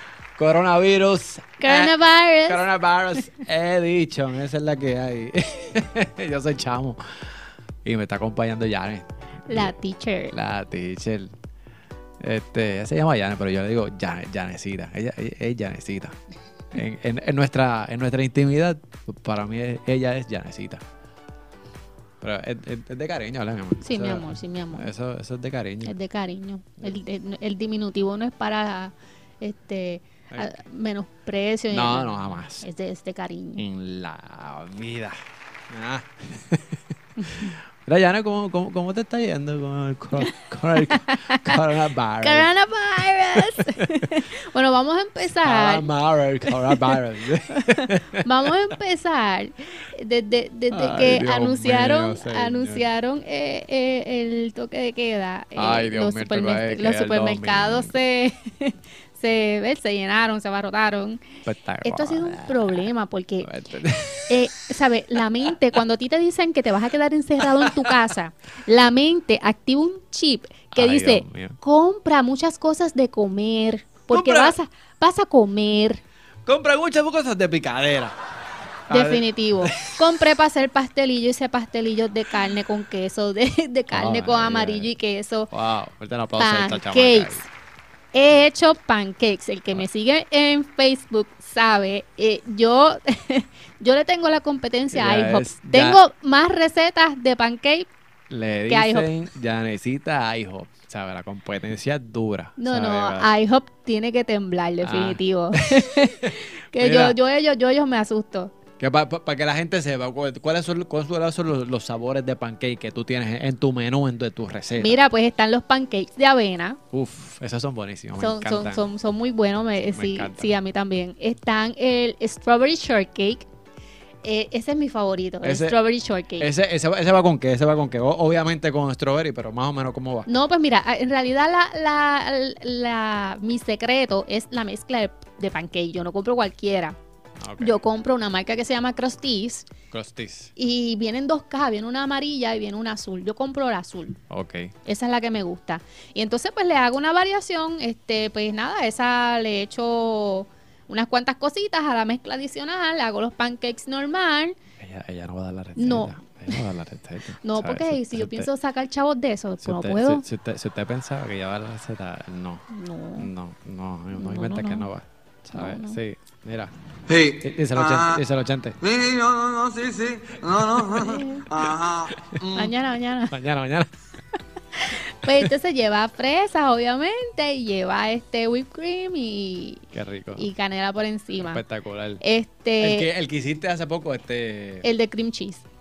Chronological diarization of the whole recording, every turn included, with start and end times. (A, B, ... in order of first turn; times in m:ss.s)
0:00.4-0:01.9 A
0:01.6-0:02.7 B
0:02.4-0:07.0 A
0:07.8-0:09.7 A
0:09.5-0:10.3 B
0:10.3-0:11.3 A
0:12.2-0:16.2 A
0:16.7-0:20.8 A
0:22.2-0:25.9 A
0:23.8-0:24.9 B
0:25.8-0:33.6 B
0:31.7-0:32.6 A
0:33.6-0:35.1 A
0:35.7-0:36.8 A
0:37.2-0:37.6 B
0:37.8-0:42.5 A
0:40.8-0:41.6 B
0:42.2-0:45.9 B
0:43.3-0:44.1 A
0:45.4-0:48.2 A
0:46.4-0:47.0 B
0:47.5-1:01.3 B
0:50.7-0:52.8 A
0:55.6-0:58.0 A
1:01.4-1:02.8 A
1:01.8-1:03.5 B
1:03.4-1:04.5 A
1:04.3-1:16.0 B
1:07.4-1:08.0 A
1:10.7-1:11.6 A
1:14.1-1:14.6 A
1:16.4-1:18.1 A
1:18.9-1:20.0 A
1:18.9-1:25.5 B
1:23.9-1:24.9 A
1:25.5-1:27.4 A
1:26.4-1:27.5 B
1:28.1-1:37.9 B
1:34.9-1:36.0 A
1:38.3-1:43.3 A
1:38.7-1:39.1 B
1:42.6-1:48.5 B
1:44.8-1:47.2 A
1:48.8-1:55.0 A
1:54.8-1:56.8 B
1:56.9-1:58.8 A
1:58.2-2:03.5 B
1:59.8-2:00.5 A
2:04.2-2:06.5 B
2:05.4-2:05.8 A
2:06.4-2:10.3 A
2:10.2-2:17.0 B
2:17.4-2:17.8 A
2:17.6-2:19.7 B
2:19.9-2:20.5 A
2:20.6-2:24.2 B
2:24.3-2:24.7 A
2:24.8-2:34.6 B
2:34.8-2:38.5 A
2:35.8-2:36.6 B
2:37.4-2:40.2 B
2:39.6-2:46.7 A
2:42.7-2:43.3 B
2:44.1-2:44.9 B
2:45.5-2:46.0 B
2:47.1-2:48.2 C
2:47.4-2:48.8 A
2:48.8-2:52.7 C
2:50.9-2:51.5 B
2:52.5-2:53.4 B
2:53.3-2:53.9 A
2:54.8-3:01.6 B
2:59.9-3:00.5 A
3:01.4-3:02.2 A
3:02.2-3:03.1 B
3:02.8-3:04.8 A
3:04.8-3:05.6 B